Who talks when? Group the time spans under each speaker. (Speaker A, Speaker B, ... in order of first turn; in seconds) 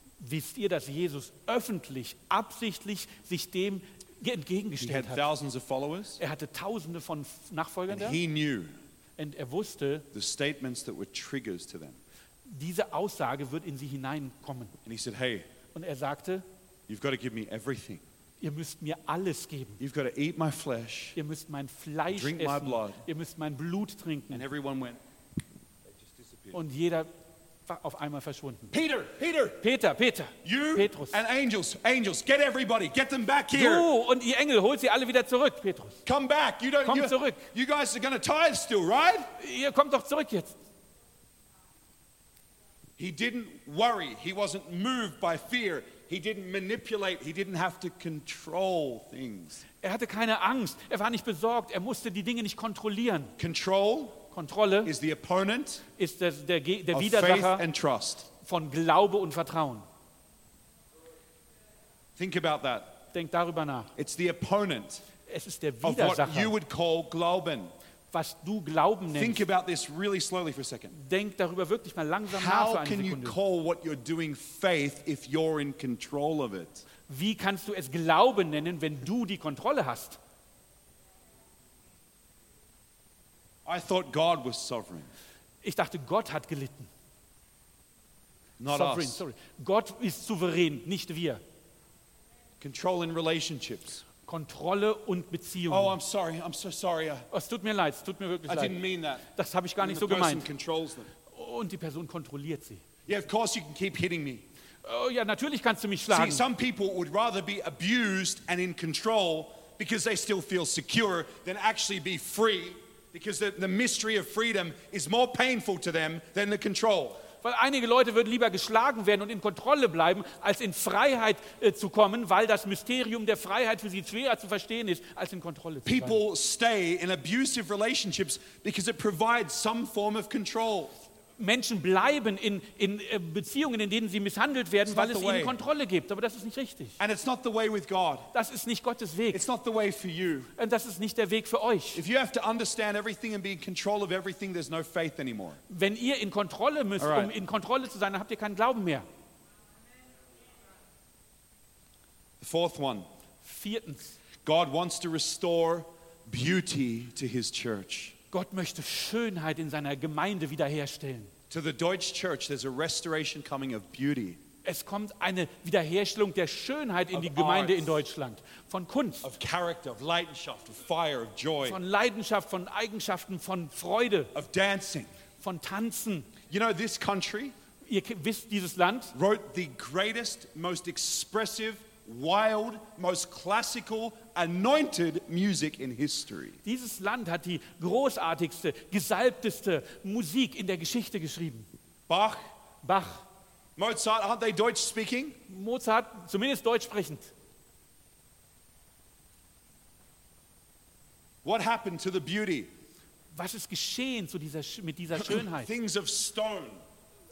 Speaker A: 0.2-5.3, 6.2-8.2, 9.2-10.1, 12.4-14.8, 15.7-16.4, 18.4-19.8, 21.1-24.4, 26.5-27.1, 27.6-28.7, 29.6-31.2, 33.5-36.0, 36.8-37.5, 39.4-40.5, 49.8-53.3, 54.3-54.9, 56.0-57.6, 58.4-59.9, 63.1-63.9, 65.3-66.5, 68.1-69.4, 70.9-73.4, 77.1-80.2, 85.6-86.9, 88.7-91.4, 94.2-96.0, 97.3-98.8, 99.3-100.5, 101.3-102.8, 104.8-106.5, 117.4-126.2, 131.4-137.0, 138.3-139.4, 140.6-142.0, 145.7-149.1, 153.4-154.2, 158.3-161.3, 164.6-169.3, 171.6-174.3, 175.4-176.3, 177.9-179.1, 186.6-191.7, 192.8-193.2, 195.5-197.3, 203.3-205.7
Speaker B: 4.8-6.2, 7.9-8.7, 10.1-12.0, 14.8-15.5, 16.9-18.0, 19.8-21.2, 22.1-23.0, 24.3-25.0, 25.9-26.6, 28.7-29.6, 30.4-33.9, 36.0-39.3, 43.0-49.6, 53.4-54.2, 54.8-55.8, 56.9-58.3, 62.1-63.0, 64.0-65.0, 65.8-67.7, 69.1-70.9, 72.3-76.9, 83.6-85.1, 88.6-89.2, 92.6-94.0, 95.7-97.3, 98.5-99.2, 99.8-101.1, 103.0-104.4, 106.1-117.2, 125.8-130.9, 134.9-135.6, 137.0-138.3, 139.3-140.5, 141.9-145.6, 147.0-147.3, 152.4-153.1, 154.4-158.1, 161.5-164.4, 167.1-168.0, 169.2-171.8, 174.3-175.1, 176.4-177.5, 179.1-186.6, 192.1-192.4, 193.8-195.4, 201.4-202.7, 205.1-206.8